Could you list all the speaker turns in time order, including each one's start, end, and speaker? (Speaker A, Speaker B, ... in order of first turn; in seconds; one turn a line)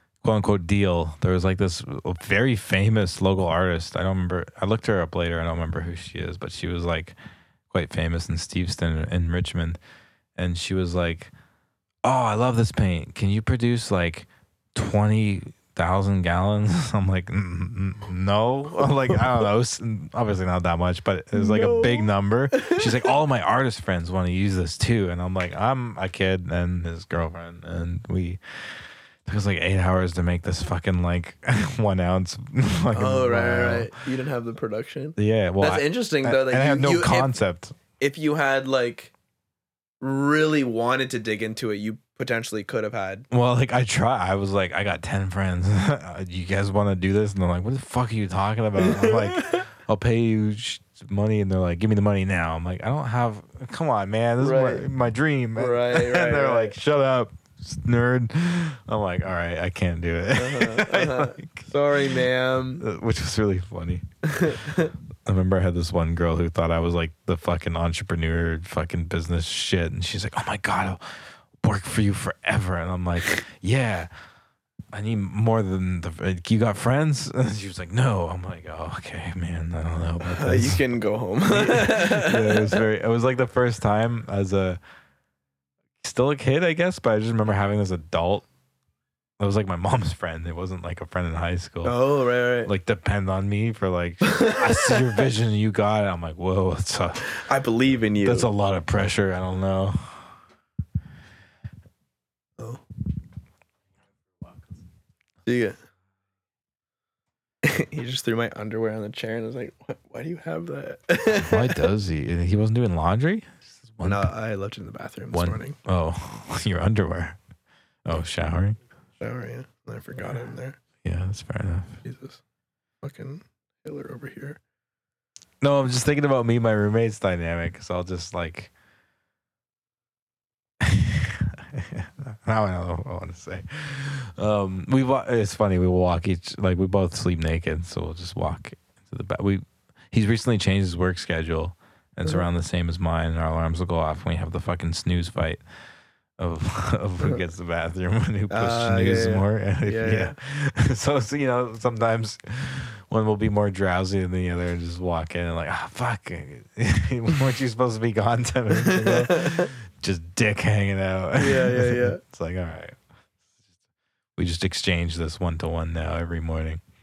Speaker A: 0.2-7.2
Speaker A: 7.7-9.8
Speaker A: 10.4-11.3
Speaker A: 12.0-28.4
Speaker B: 21.3-22.9
Speaker A: 29.3-33.9
Speaker B: 32.9-37.3
Speaker A: 35.2-37.8
Speaker B: 38.0-39.1
Speaker B: 40.0-43.3
Speaker A: 43.3-62.2
Speaker B: 48.8-49.6
Speaker B: 54.4-54.9
Speaker B: 55.6-56.7
Speaker B: 60.4-62.8
Speaker A: 62.8-64.0
Speaker B: 64.2-64.9
Speaker A: 65.2-71.0
Speaker A: 71.6-74.1
Speaker A: 74.9-80.8
Speaker B: 80.2-82.8
Speaker A: 81.5-84.8
Speaker A: 86.0-88.5
Speaker A: 89.4-92.0
Speaker B: 91.8-92.7
Speaker A: 92.7-97.3
Speaker B: 94.2-95.3
Speaker B: 97.3-98.5
Speaker A: 98.2-100.3
Speaker B: 105.5-105.8
Speaker B: 107.6-111.9
Speaker A: 111.3-114.3
Speaker B: 114.0-115.8
Speaker A: 115.3-117.4
Speaker A: 118.0-118.8
Speaker B: 119.2-120.8
Speaker A: 121.0-122.0
Speaker B: 122.0-122.4
Speaker B: 123.0-124.6
Speaker A: 125.6-128.7
Speaker A: 130.8-145.6
Speaker A: 146.4-163.0
Speaker B: 148.5-150.4
Speaker B: 158.7-159.7
Speaker B: 161.4-162.2
Speaker A: 164.4-166.8